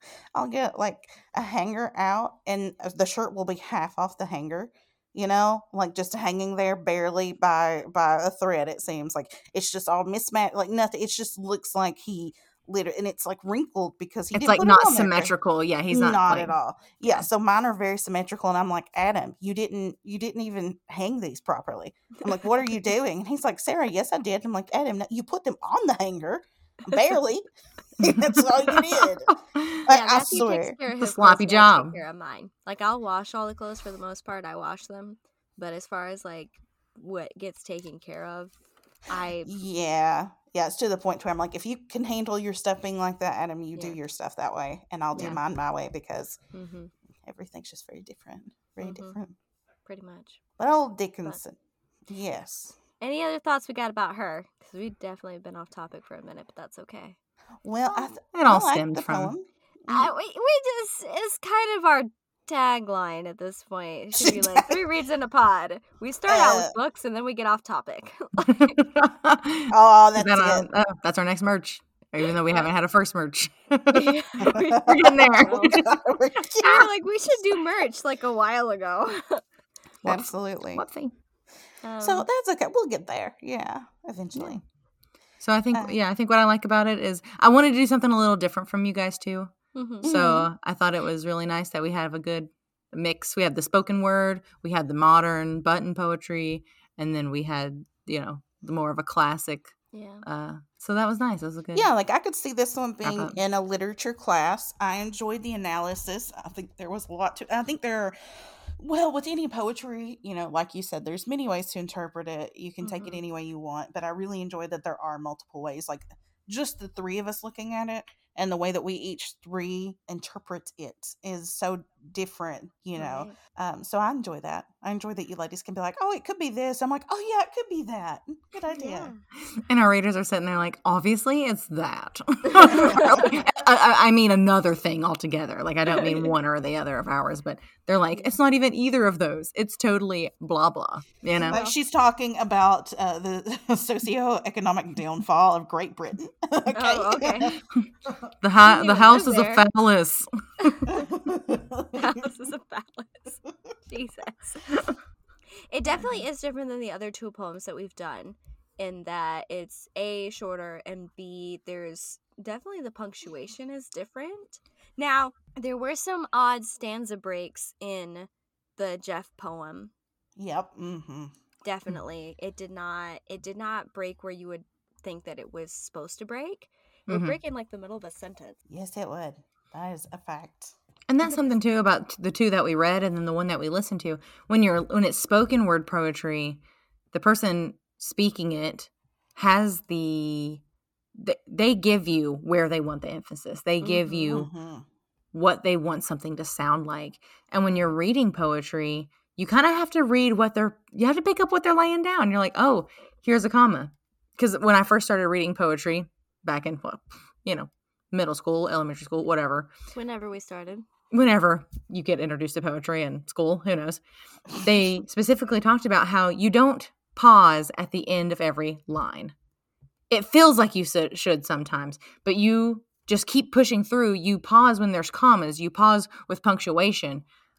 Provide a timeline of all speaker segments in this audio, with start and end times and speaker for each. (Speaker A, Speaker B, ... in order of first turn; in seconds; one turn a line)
Speaker A: 0.3-15.3
Speaker B: 14.3-16.5
Speaker A: 15.9-27.4
Speaker A: 28.0-29.3
Speaker B: 28.0-29.0
Speaker B: 29.6-29.8
Speaker A: 29.9-30.8
Speaker C: 29.9-39.5
Speaker B: 31.0-32.0
Speaker A: 39.4-46.4
Speaker B: 45.1-45.4
Speaker C: 46.5-46.9
Speaker A: 47.2-49.3
Speaker C: 48.8-49.2
Speaker C: 49.9-50.4
Speaker A: 50.6-52.8
Speaker C: 53.0-57.2
Speaker A: 57.6-60.1
Speaker B: 58.2-59.3
Speaker C: 59.9-68.7
Speaker A: 64.2-64.8
Speaker A: 66.3-66.7
Speaker B: 68.4-74.2
Speaker A: 69.7-70.7
Speaker C: 73.9-75.8
Speaker A: 74.4-77.3
Speaker B: 74.8-75.9
Speaker C: 76.6-79.4
Speaker B: 80.0-81.1
Speaker A: 80.0-80.8
Speaker C: 81.8-82.3
Speaker A: 82.0-84.6
Speaker B: 85.4-89.5
Speaker C: 89.7-90.4
Speaker A: 90.0-90.4
Speaker B: 90.0-101.9
Speaker C: 99.9-100.2
Speaker A: 101.7-129.1
Speaker B: 103.0-103.4
Speaker C: 112.8-113.2
Speaker C: 123.0-123.3
Speaker C: 128.7-129.2
Speaker B: 129.4-141.6
Speaker C: 132.5-133.3
Speaker A: 132.6-133.4
Speaker A: 135.8-136.3
Speaker A: 141.4-148.1
Speaker C: 146.7-147.6
Speaker B: 148.4-150.9
Speaker C: 148.6-149.7
Speaker C: 150.6-150.9
Speaker A: 150.9-152.0
Speaker C: 151.9-154.7
Speaker C: 155.7-169.9
Speaker A: 170.4-171.3
Speaker C: 171.6-178.6
Speaker B: 177.1-177.3
Speaker A: 178.7-180.7
Speaker B: 181.1-186.6
Speaker B: 187.1-190.6
Speaker B: 191.1-194.5
Speaker C: 193.8-194.4
Speaker A: 194.3-194.8
Speaker B: 195.3-209.7
Speaker C: 209.9-210.8
Speaker B: 211.1-214.0
Speaker B: 214.5-219.3
Speaker B: 220.1-227.2